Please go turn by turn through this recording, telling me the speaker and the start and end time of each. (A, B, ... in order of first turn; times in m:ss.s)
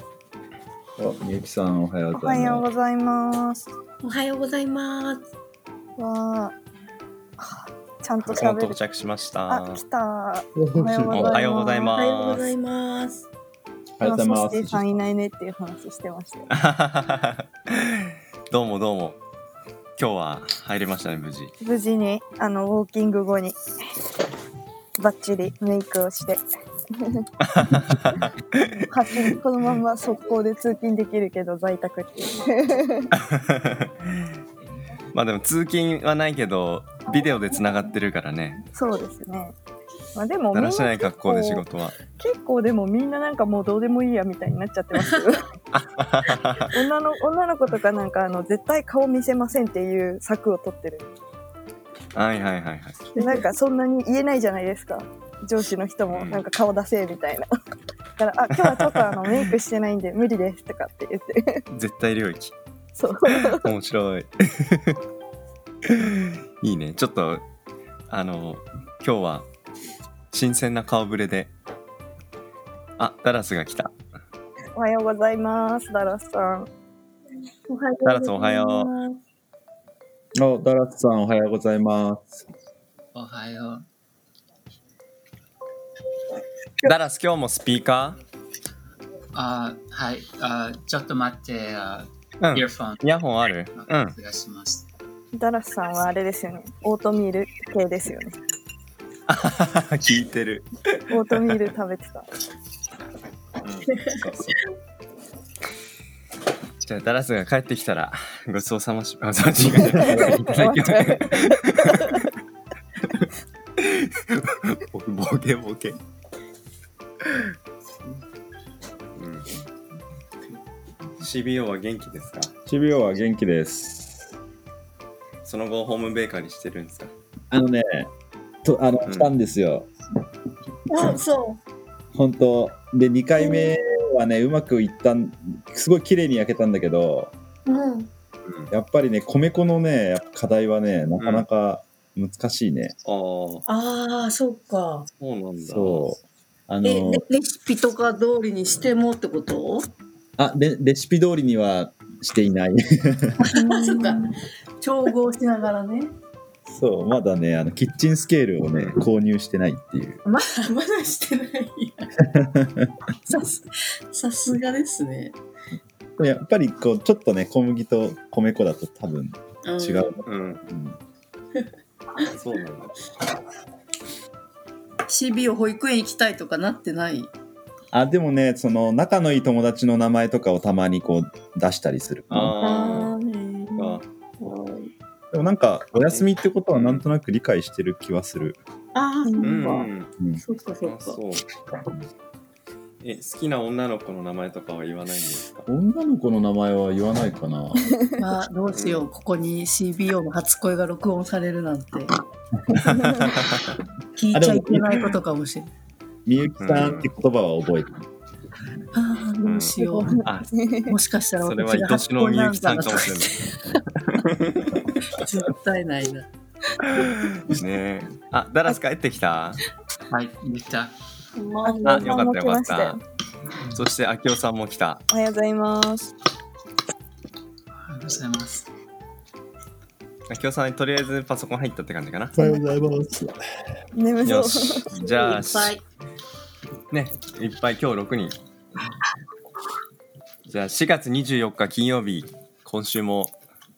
0:01.0-0:02.6 A
0:02.1-0:03.7 B
0:04.0-0:05.3 C
0:06.0-0:06.6 B
0:07.4-0:08.8 B
0:08.2-0:09.8 D
0:09.5-0:11.9 B
0:10.6-0:11.4 A
0:11.1-0:12.5 D
0:11.9-0:13.3 C
0:14.0-0:14.9 A
0:14.0-0:16.5 B
0:16.5-0:19.2 D
0:20.0-0:21.5 D
0:21.6-0:23.6 B
0:25.0-0:26.4 B
0:27.4-0:28.8 D
0:28.8-0:33.1 B
0:33.1-0:33.9 D
0:35.1-0:38.6 D
0:38.8-0:39.6 B
0:40.2-0:41.6 B
0:40.5-0:42.0 D
0:42.2-0:45.5 B
0:45.7-0:46.7 D
0:46.7-0:51.1 B
0:52.2-0:53.1 D
0:53.2-0:53.4 C
0:53.2-0:57.5 B
0:56.1-0:56.4 D
0:58.2-1:01.6 B
0:58.6-0:59.0 D
1:01.7-1:02.5 D
1:03.0-1:03.7 B
1:03.5-1:05.0 D
1:05.9-1:07.4 D
1:08.1-1:09.5 D
1:10.3-1:11.5 D
1:13.0-1:13.9 D
1:14.8-1:16.7 B
1:17.7-1:19.2 C
1:18.0-1:18.9 D
1:20.4-1:22.4 A
1:23.2-1:23.8 E
1:26.8-1:28.2 D
1:29.3-1:33.0 E
1:32.4-1:34.2 D
1:33.7-1:34.9 E
1:35.3-1:38.4 B
1:39.3-1:41.4 D
1:41.1-1:42.3 B
1:43.6-1:44.5 D
1:46.8-1:52.3 D
1:50.0-1:52.2 B
1:50.0-1:50.4 A
1:53.8-1:56.0 D
1:59.2-1:59.5 D
2:01.2-2:02.5 D
2:02.7-2:04.3 A
2:05.4-2:07.1 D
2:07.5-2:08.1 A
2:08.6-2:09.9 A
2:09.1-2:09.3 D
2:10.9-2:11.6 C
2:12.1-2:17.3 A
2:13.4-2:13.7 C
2:17.7-2:18.1 C
2:18.7-2:23.0 A
2:21.2-2:21.4 D
2:23.0-2:23.6 D
2:23.7-2:25.1 C
2:25.2-2:26.1 D
2:25.6-2:27.2 A
2:26.8-2:29.9 C
2:30.4-2:33.4 A
2:33.4-2:36.1 C
2:33.6-2:34.2 B
2:36.7-2:40.2 A
2:40.2-2:42.1 C
2:42.3-2:42.9 A
2:43.3-2:45.4 C
2:46.2-2:51.0 A
2:49.6-2:50.2 C
2:50.3-2:50.6 D
2:52.2-2:52.9 D
2:55.1-2:57.3 C
2:57.9-3:02.6 A
3:02.3-3:03.1 D
3:02.6-3:04.9 C
3:03.8-3:04.0 D
3:05.3-3:08.6 A
3:06.1-3:07.0 D
3:09.0-3:11.2 C
3:09.2-3:09.6 B
3:09.4-3:10.1 D
3:10.8-3:11.4 D
3:13.0-3:15.7 D
3:15.7-3:17.8 A
3:18.2-3:22.1 C
3:18.7-3:19.1 D
3:22.9-3:23.3 B
3:23.0-3:23.7 D
3:24.2-3:25.7 C
3:24.3-3:24.9 A
3:26.3-3:28.0 A
3:26.6-3:27.1 D
3:28.9-3:30.3 C
3:29.4-3:30.5 D
3:29.8-3:30.9 B
3:30.9-3:34.2 C
3:31.4-3:33.3 D
3:34.1-3:34.8 D
3:35.1-3:36.3 C
3:37.0-3:39.6 D
3:40.1-3:40.9 E
3:41.4-3:42.2 C
3:41.6-3:43.0 B
3:41.9-3:43.0 D
3:43.7-3:45.0 D
3:45.1-3:46.1 B
3:47.8-3:48.7 E
3:50.3-3:52.5 D
3:52.4-3:53.4 A
3:54.0-3:55.0 B
3:54.2-3:55.8 D
3:54.9-3:55.8 C
3:56.9-3:58.4 D
4:00.5-4:03.3 D